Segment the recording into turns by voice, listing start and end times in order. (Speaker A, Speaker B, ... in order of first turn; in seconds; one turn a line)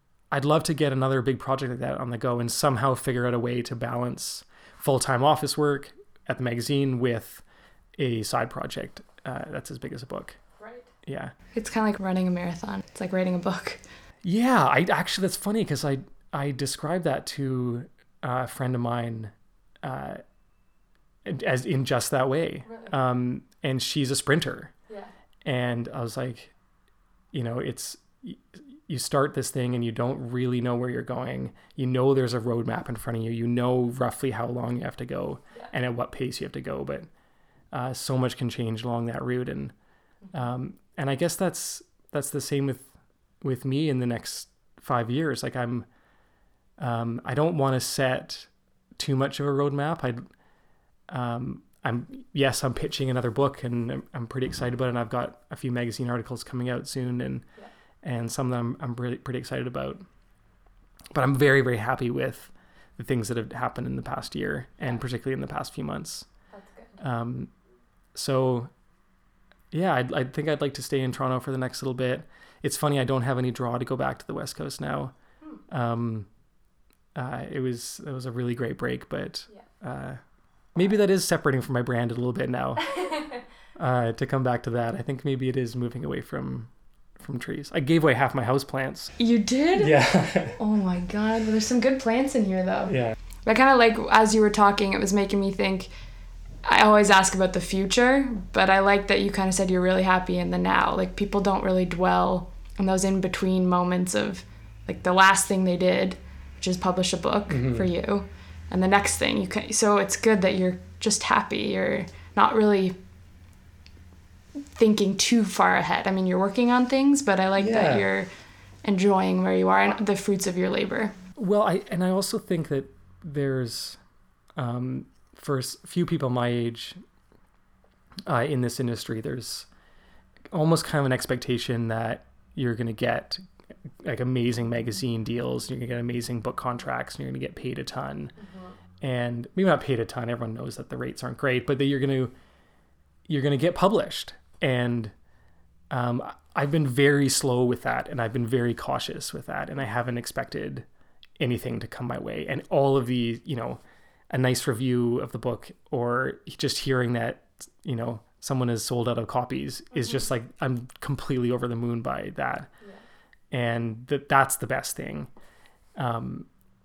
Speaker A: 0.3-7.4
Speaker A: 8.0-10.4
Speaker B: 10.6-10.8
Speaker A: 11.0-11.3
Speaker B: 11.5-13.8
Speaker A: 14.2-20.2
Speaker A: 21.2-24.7
Speaker A: 25.4-26.5
Speaker A: 27.3-37.1
Speaker A: 37.7-39.7
Speaker A: 40.3-42.9
Speaker A: 43.4-45.9
Speaker A: 46.8-50.2
Speaker A: 51.1-57.5
Speaker A: 58.0-60.0
Speaker A: 61.1-66.3
Speaker B: 66.5-67.0
Speaker A: 67.0-67.5
Speaker A: 68.1-68.7
Speaker A: 69.7-75.1
Speaker A: 75.7-76.3
Speaker A: 77.1-80.2
Speaker A: 80.7-83.1
Speaker A: 83.8-89.1
Speaker B: 89.2-90.0
Speaker A: 89.7-90.6
Speaker B: 90.5-92.9
Speaker A: 92.9-93.2
Speaker B: 93.5-95.9
Speaker B: 96.6-113.0
Speaker A: 107.5-107.9
Speaker B: 114.8-118.3
Speaker A: 117.5-118.1
Speaker B: 118.8-121.1
Speaker A: 121.3-124.0
Speaker A: 124.5-127.0
Speaker A: 128.2-129.7
Speaker A: 130.5-133.4
Speaker A: 134.0-138.3
Speaker B: 138.4-138.7
Speaker A: 139.0-142.3
Speaker A: 143.3-145.1
Speaker A: 145.9-150.8
Speaker A: 151.4-162.7
Speaker A: 163.5-165.3
Speaker A: 165.9-166.5